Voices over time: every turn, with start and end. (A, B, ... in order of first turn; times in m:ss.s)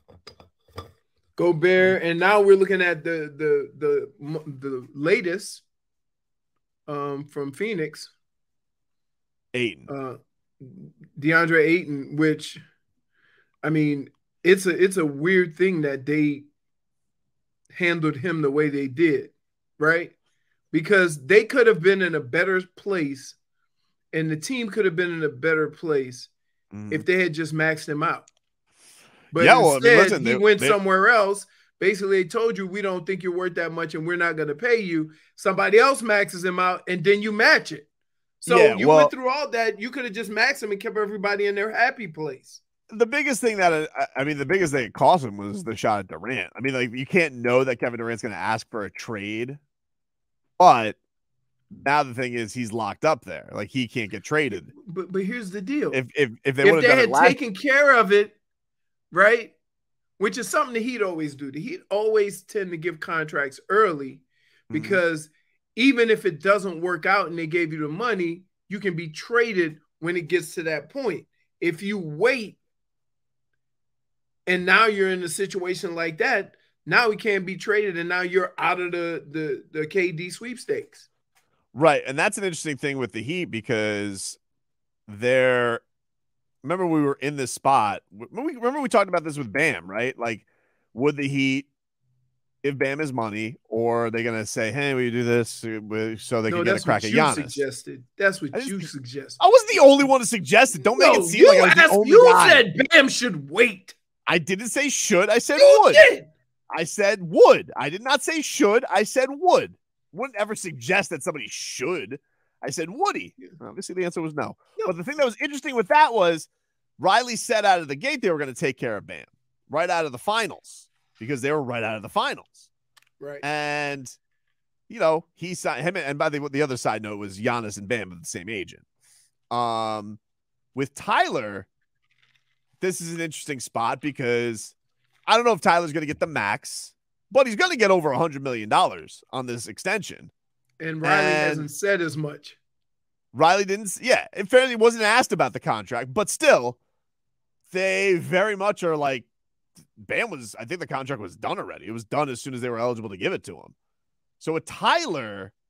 0:01.4-0:05.6 A
0:06.9-0:08.1 A
0:09.5-0:09.9 B
0:09.9-0:12.6 A
0:13.6-0:16.5 A
0:17.7-0:20.1 A
0:20.7-0:23.4 A
0:24.1-0:26.3 A
0:26.7-0:27.1 B
0:26.9-0:28.3 A
0:29.3-0:37.9 A
0:29.4-0:30.8 B
0:38.4-0:42.6 A
0:38.5-0:39.1 B
0:42.9-0:49.6 B
0:50.6-0:51.0 B
0:51.8-0:54.7 B
0:54.5-0:56.0 A
0:55.9-0:57.4 B
0:56.6-0:58.4 A
0:59.1-0:59.5 A
1:00.2-1:12.6 A
1:04.7-1:05.0 B
1:14.4-1:21.0 A
1:21.7-1:24.4 B
1:25.1-1:25.8 B
1:26.6-1:31.7 B
1:32.6-1:37.6 B
1:36.5-1:39.4 A
1:38.5-1:42.7 B
1:40.9-1:43.9 A
1:44.3-1:46.1 B
1:45.6-1:46.3 A
1:46.7-1:56.5 B
1:57.0-2:02.7 B
2:03.2-2:03.4 A
2:03.4-2:04.2 B
2:04.9-2:08.8 B
2:09.5-2:10.2 B
2:10.8-2:11.7 B
2:12.8-2:14.7 B
2:15.3-2:20.3 B
2:20.8-2:22.6 A
2:21.0-2:21.7 B
2:23.3-2:26.8 B
2:27.7-2:29.3 B
2:30.0-2:33.7 B
2:34.4-2:35.5 B